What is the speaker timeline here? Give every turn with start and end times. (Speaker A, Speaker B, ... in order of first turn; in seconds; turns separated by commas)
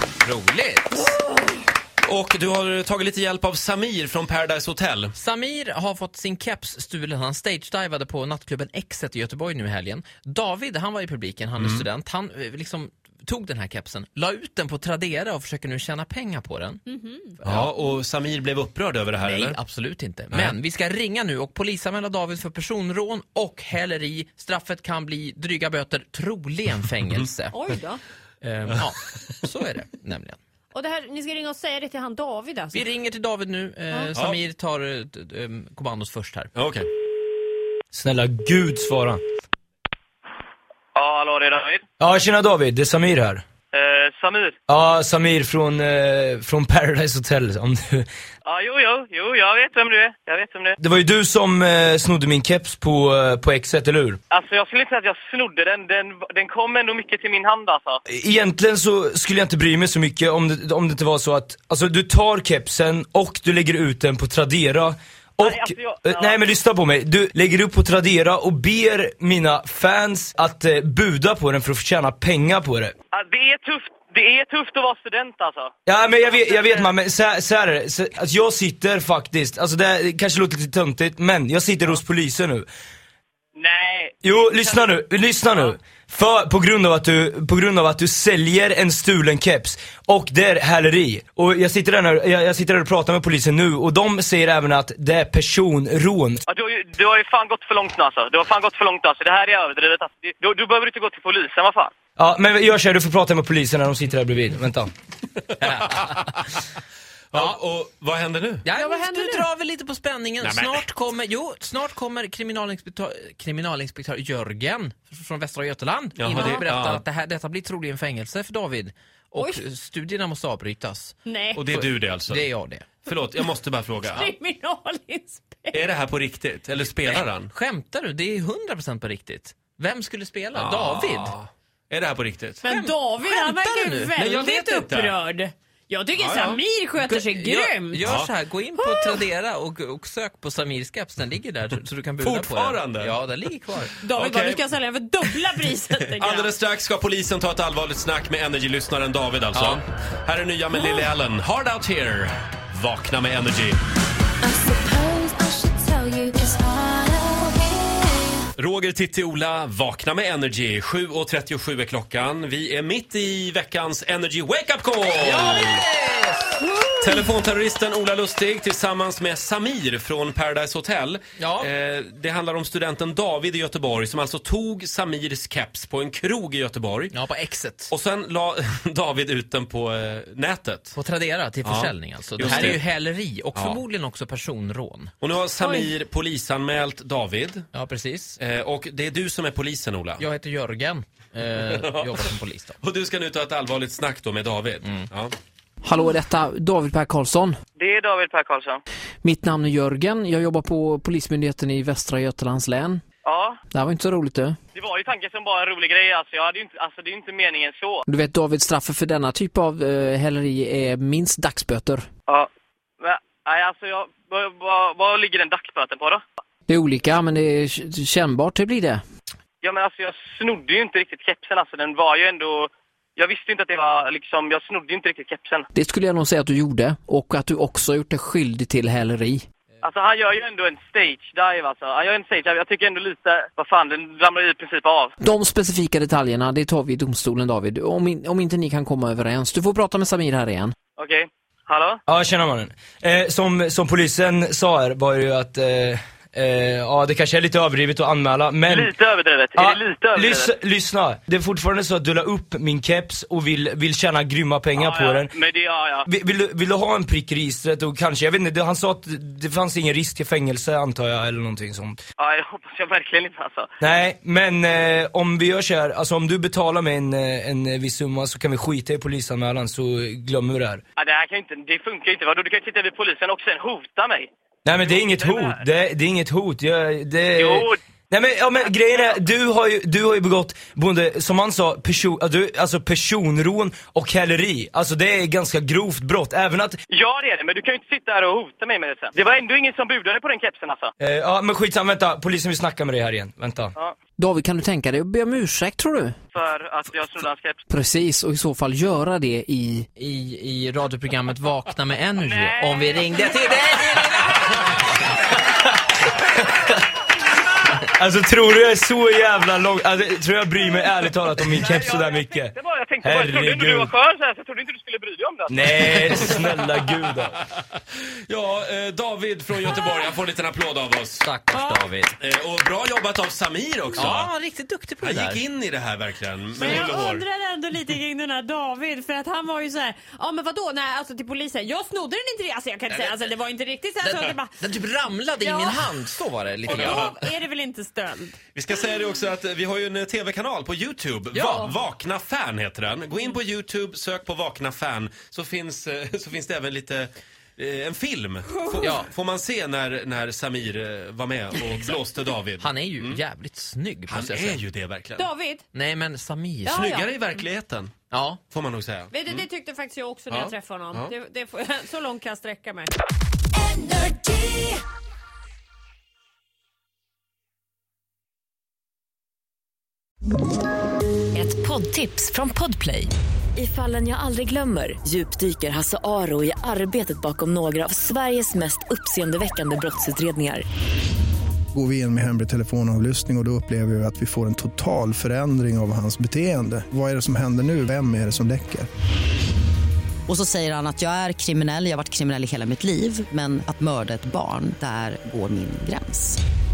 Speaker A: 0.2-1.1, Speaker B: 2.0-5.1, Speaker A: 5.2-16.8, Speaker B: 11.6-11.9, Speaker C: 16.9-17.4, Speaker A: 17.4-17.7, Speaker B: 17.4-19.6, Speaker A: 19.2-27.6, Speaker C: 27.5-28.0, Speaker A: 28.4-30.4, Speaker C: 30.7-32.9, Speaker A: 32.7-36.5, Speaker B: 36.6-36.9, Speaker D: 37.9-39.2, Speaker E: 41.0-41.8, Speaker D: 42.0-43.4, Speaker E: 43.7-44.6, Speaker D: 44.7-48.1, Speaker E: 48.5-50.8, Speaker D: 50.8-54.2, Speaker E: 54.3-58.0, Speaker D: 58.1-72.9, Speaker E: 65.4-66.5, Speaker E: 73.1-75.7, Speaker D: 75.9-82.7, Speaker E: 76.2-76.9, Speaker E: 83.5-84.2, Speaker D: 84.2-96.4, Speaker E: 96.5-101.9, Speaker D: 102.2-104.9, Speaker A: 105.6-106.5, Speaker B: 107.3-108.6, Speaker A: 108.6-121.2, Speaker C: 108.8-109.5, Speaker B: 110.4-110.8, Speaker B: 116.2-117.0, Speaker C: 119.4-119.6, Speaker C: 121.2-121.7, Speaker B: 121.5-122.5, Speaker A: 121.7-122.9, Speaker B: 123.1-124.3, Speaker C: 124.1-125.9, Speaker B: 125.7-127.5, Speaker A: 127.5-131.3, Speaker B: 130.6-132.6, Speaker C: 132.6-138.1, Speaker A: 132.6-134.6, Speaker B: 134.2-135.2, Speaker B: 136.2-136.6, Speaker A: 137.0-144.0, Speaker B: 138.0-138.3, Speaker C: 138.8-139.2, Speaker B: 142.2-143.2, Speaker C: 144.0-146.5, Speaker B: 144.1-144.6, Speaker B: 146.1-153.8, Speaker A: 149.5-149.8, Speaker F: 154.4-158.4, Speaker B: 158.6-165.8, Speaker A: 165.2-166.7, Speaker B: 167.0-177.1, Speaker A: 171.4-171.7, Speaker A: 177.1-177.9, Speaker B: 177.9-181.0, Speaker A: 180.9-185.1, Speaker B: 181.6-182.8, Speaker B: 183.6-183.8, Speaker B: 185.2-187.7, Speaker A: 187.7-188.4, Speaker B: 188.4-190.2, Speaker A: 190.2-192.8, Speaker B: 191.7-192.1, Speaker B: 192.8-195.3, Speaker G: 195.8-197.6, Speaker E: 197.8-198.8, Speaker G: 199.2-203.0, Speaker E: 203.2-203.6, Speaker G: 203.7-204.6, Speaker E: 204.8-208.1, Speaker G: 208.1-212.1, Speaker E: 213.0-216.2, Speaker G: 216.7-219.0, Speaker E: 219.6-225.7, Speaker G: 225.8-229.4, Speaker E: 229.8-235.1, Speaker G: 235.2-240.7, Speaker E: 241.0-242.0, Speaker D: 242.1-248.9, Speaker E: 248.7-250.5, Speaker D: 249.6-255.3, Speaker E: 254.8-256.1, Speaker D: 256.1-262.0, Speaker E: 262.2-263.7, Speaker D: 263.8-270.8, Speaker E: 271.0-275.6, Speaker D: 274.7-286.8, Speaker E: 277.4-277.7, Speaker E: 286.9-290.9, Speaker D: 291.0-293.8, Speaker G: 294.2-296.1, Speaker E: 296.3-297.6, Speaker G: 297.7-299.9, Speaker A: 300.0-304.7, Speaker E: 302.2-303.3, Speaker D: 307.9-313.9, Speaker E: 311.5-315.5, Speaker D: 315.5-317.4, Speaker B: 315.9-316.7, Speaker B: 318.3-321.3, Speaker A: 321.2-322.1, Speaker C: 321.5-321.9, Speaker B: 322.2-324.3, Speaker A: 323.9-325.4, Speaker B: 325.0-327.3, Speaker C: 326.6-334.6, Speaker A: 332.9-333.3, Speaker A: 334.0-337.1, Speaker C: 335.4-335.9, Speaker C: 336.7-338.4, Speaker B: 336.7-337.2, Speaker B: 338.6-353.2, Speaker A: 341.3-341.7, Speaker A: 348.8-349.1, Speaker A: 352.6-354.6, Speaker B: 354.1-355.3, Speaker C: 355.2-355.7, Speaker A: 355.7-356.8, Speaker B: 356.7-357.9, Speaker C: 356.7-357.4, Speaker A: 358.1-358.4, Speaker B: 358.5-359.5, Speaker C: 359.1-362.9, Speaker B: 360.3-361.1, Speaker H: 371.3-380.6, Speaker I: 381.7-388.9, Speaker J: 390.3-396.4